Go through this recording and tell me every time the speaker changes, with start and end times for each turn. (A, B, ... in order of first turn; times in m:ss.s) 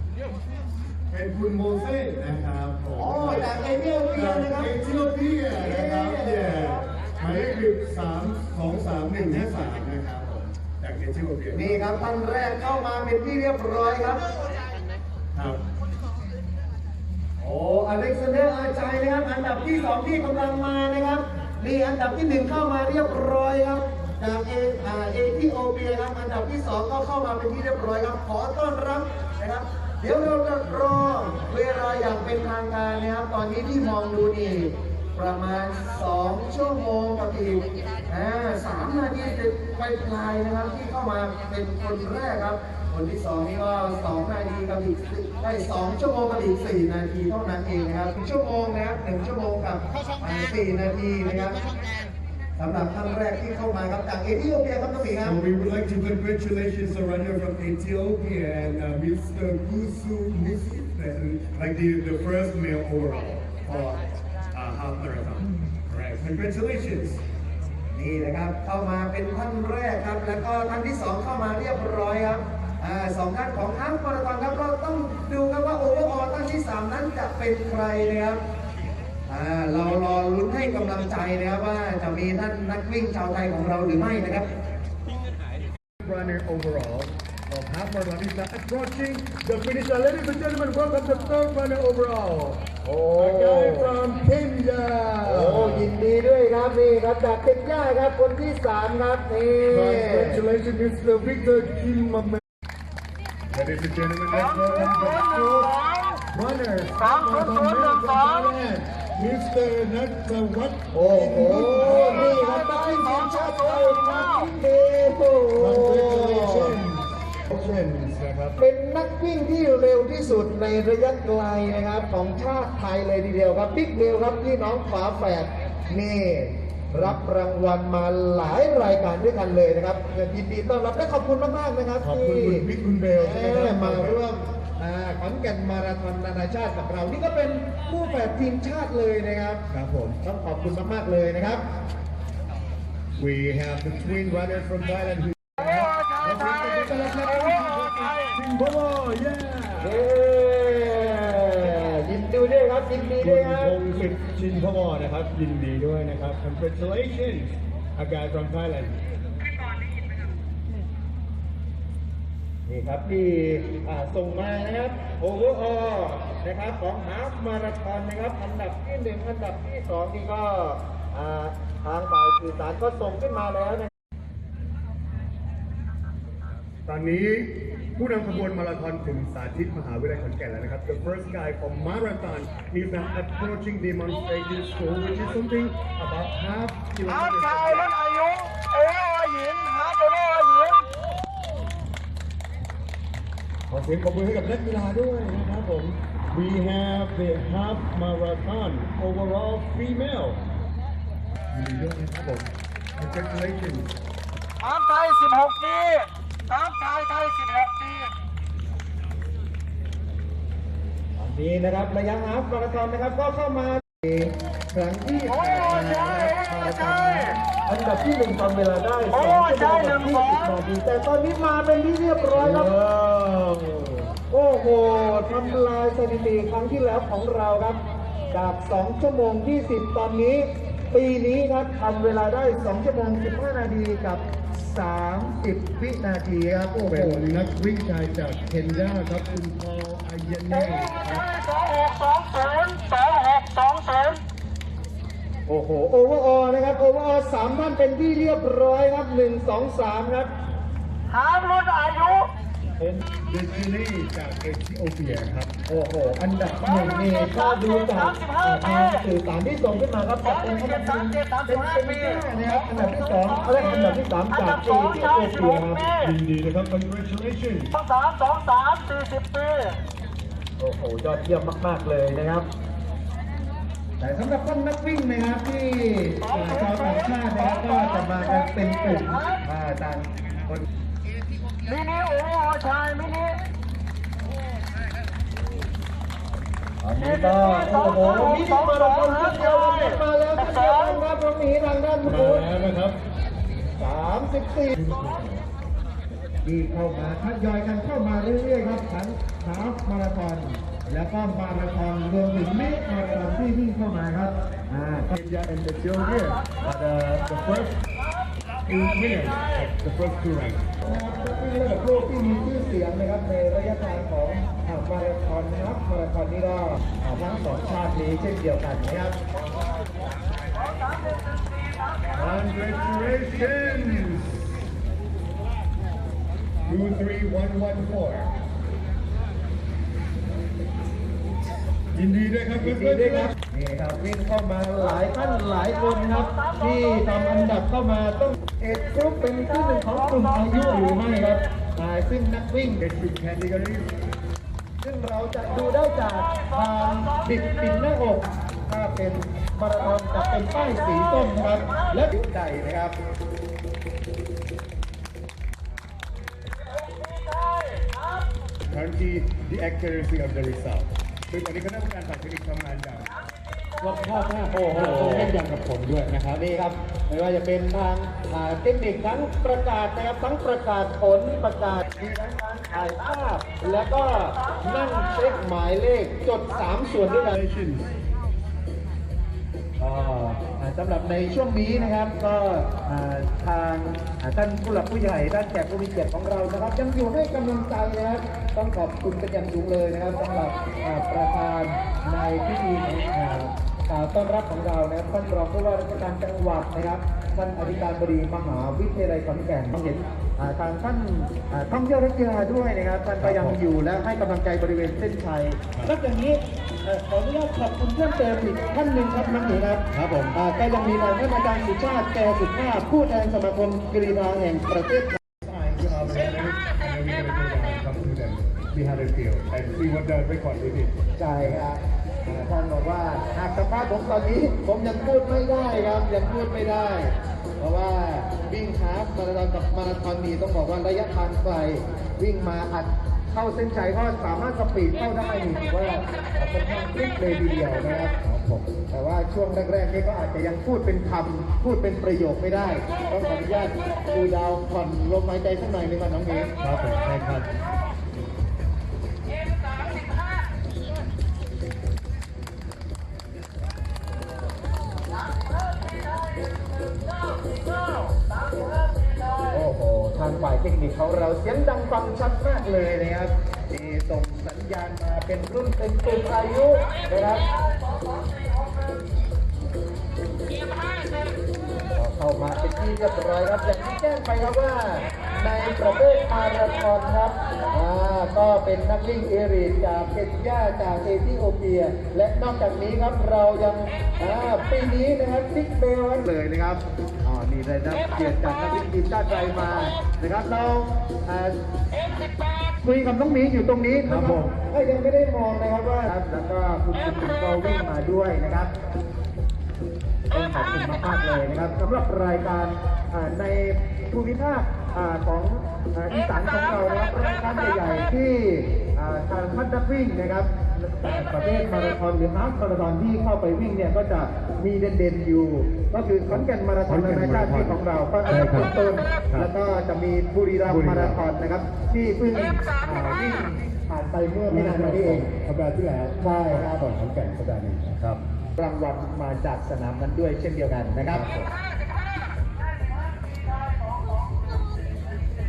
0:01.1-0:03.6 A
0:02.9-0:04.7 B
0:04.1-0:11.8 A
0:05.5-0:06.8 B
0:11.5-0:14.3 B
0:15.3-0:15.6 A
0:17.4-0:51.6 B
0:52.6-0:55.4 B
0:55.2-1:07.2 A
1:07.9-1:18.4 B
1:19.3-1:24.5 B
1:26.0-1:35.9 A
1:32.8-1:33.9 B
1:35.2-1:40.4 B
1:39.7-1:42.4 A
1:43.5-1:52.5 A
1:50.9-1:56.7 B
1:55.6-1:58.6 A
1:58.6-2:12.6 B
2:12.0-2:14.2 A
2:13.2-2:19.6 B
2:19.7-2:20.2 A
2:20.2-2:21.6 B
2:23.2-2:30.0 A
2:29.8-2:33.8 B
2:33.2-2:38.9 A
2:42.7-2:53.9 B
2:56.8-3:08.0 A
3:08.0-3:10.8 C
3:13.7-3:20.4 A
3:21.5-3:23.9 A
3:24.9-3:26.0 C
3:26.8-3:27.6 C
3:31.2-3:42.7 B
3:42.3-3:44.1 A
3:44.3-3:47.8 B
3:48.3-3:57.2 B
3:56.8-4:01.2 A
4:01.3-4:04.2 C
4:05.5-4:10.3 B
4:11.1-4:12.3 C
4:13.1-4:15.6 A
4:15.6-4:25.9 B
4:26.0-4:27.7 A
4:27.8-4:29.8 C
4:30.6-4:32.5 B
4:34.0-4:40.6 B
4:41.6-4:43.4 C
4:46.8-4:48.3 A
4:46.9-4:52.5 B
4:52.0-4:53.0 A
4:53.8-4:54.9 B
4:54.9-4:55.3 A
4:56.4-5:05.1 B
5:05.1-5:07.8 A
5:08.6-5:10.6 A
5:10.8-5:19.1 B
5:22.1-5:24.5 A
5:26.6-5:28.3 A
5:31.9-5:33.3 A
5:32.6-5:42.8 B
5:42.8-5:43.9 A
5:44.8-5:52.9 B
5:58.7-6:03.1 A
6:03.8-6:06.4 A
6:04.5-6:05.4 B
6:06.3-6:17.3 B
6:17.3-6:17.9 A
6:19.8-6:55.2 B
6:43.2-6:43.6 A
6:49.9-6:50.3 A
6:55.4-7:01.6 A
7:01.2-7:18.1 B
7:18.2-7:18.6 A
7:18.8-7:26.5 B
7:26.6-7:27.5 A
7:39.5-7:47.5 B
7:51.9-8:11.5 B
8:12.8-8:18.7 B
8:14.1-8:14.5 A
8:20.3-8:45.3 B
8:36.3-8:38.7 A
8:40.6-8:41.2 A
8:44.5-8:48.2 A
8:46.2-8:46.8 B
8:48.6-8:51.2 B
8:51.0-8:51.5 A